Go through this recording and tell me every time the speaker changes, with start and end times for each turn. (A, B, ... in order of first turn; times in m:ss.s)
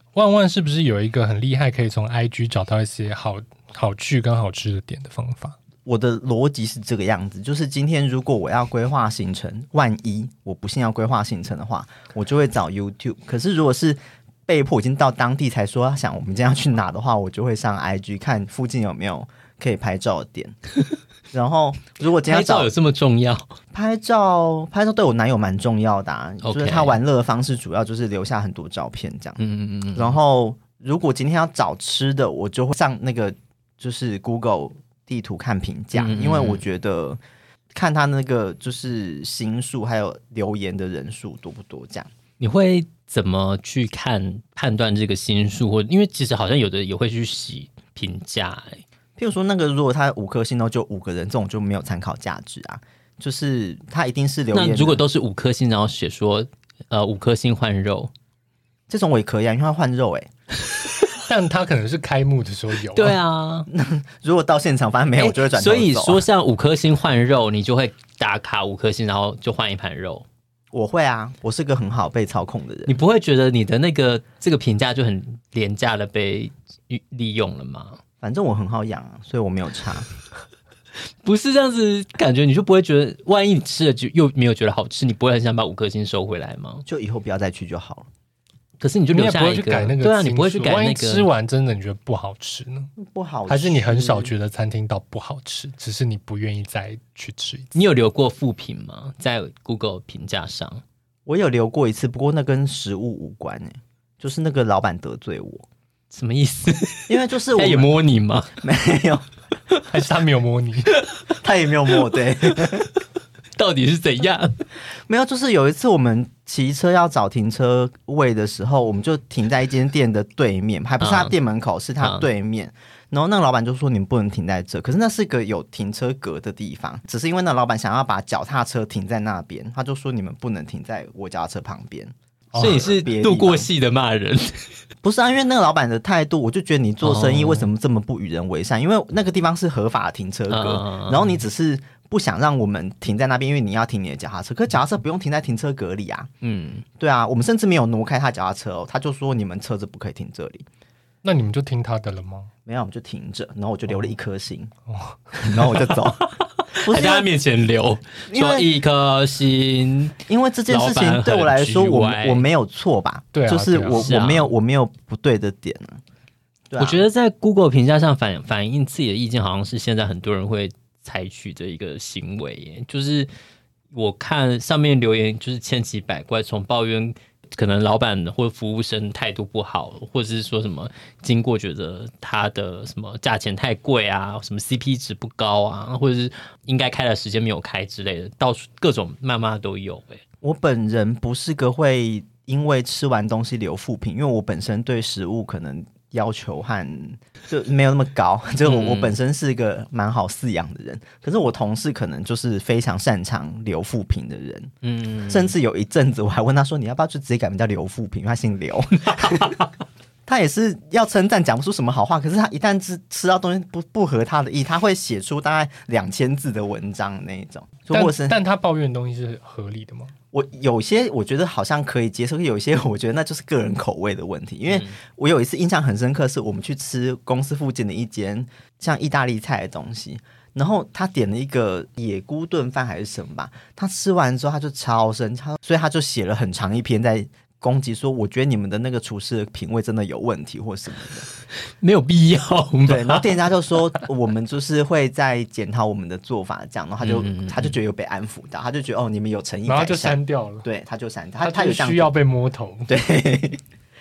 0:00.1-0:05.6 A
0:05.8-0:20.6 B
0:21.3-0:22.7 B
0:22.2-0:23.5 C
0:23.7-0:29.4 B
0:26.4-0:27.0 C
0:29.4-0:30.2 C
0:29.9-0:37.2 B
0:35.9-0:36.6 C
0:37.7-0:42.1 B
0:42.4-0:48.8 C
0:49.2-0:55.0 B
0:54.5-0:58.1 C
0:58.9-1:00.3 B
1:01.2-1:03.2 A
1:03.0-1:03.7 C
1:03.7-1:06.2 B
1:05.2-1:10.2 C
1:10.7-1:12.9 B
1:12.9-1:18.0 C
1:18.2-1:20.1 B
1:21.2-1:26.8 C
1:26.8-1:28.1 B
1:28.8-1:31.2 C
1:29.1-1:32.9 A
1:33.0-1:34.3 B
1:33.5-1:37.8 A
1:37.7-1:40.8 C
1:41.2-1:45.6 B
1:46.1-1:48.5 C
1:47.1-1:47.9 B
1:48.6-1:49.3 B
1:49.9-1:50.9 A
1:51.4-1:52.9 B
1:53.6-1:54.6 C
1:55.1-2:13.7 B
2:01.0-2:01.3 C
2:12.5-2:12.8 A
2:12.5-2:14.7 C
2:15.0-2:26.3 B
2:17.0-2:17.7 C
2:20.5-2:21.4 C
2:26.4-2:26.8 C
2:27.0-2:30.6 B
2:31.2-2:32.5 A
2:32.6-2:34.7 B
2:34.9-2:35.7 A
2:35.4-2:36.2 B
2:36.2-2:40.2 C
2:36.8-2:37.3 B
2:38.3-2:38.7 B
2:40.3-2:46.0 B
2:40.7-2:42.4 C
2:43.3-2:44.2 A
2:43.9-2:44.5 C
2:46.7-2:47.0 B
2:46.8-2:53.3 C
2:53.9-3:10.2 C
3:10.4-3:24.7 B
3:18.6-3:19.1 C
3:24.8-3:25.5 C
3:25.3-3:29.6 B
3:29.2-3:29.6 C
3:30.2-3:38.4 B
3:37.9-3:40.1 A
3:40.3-4:01.3 B
3:44.7-3:45.0 C
4:01.7-4:03.2 C
4:02.9-4:12.1 B
4:07.0-4:07.7 C
4:09.6-4:10.6 A
4:11.4-4:12.9 A
4:12.9-4:13.6 B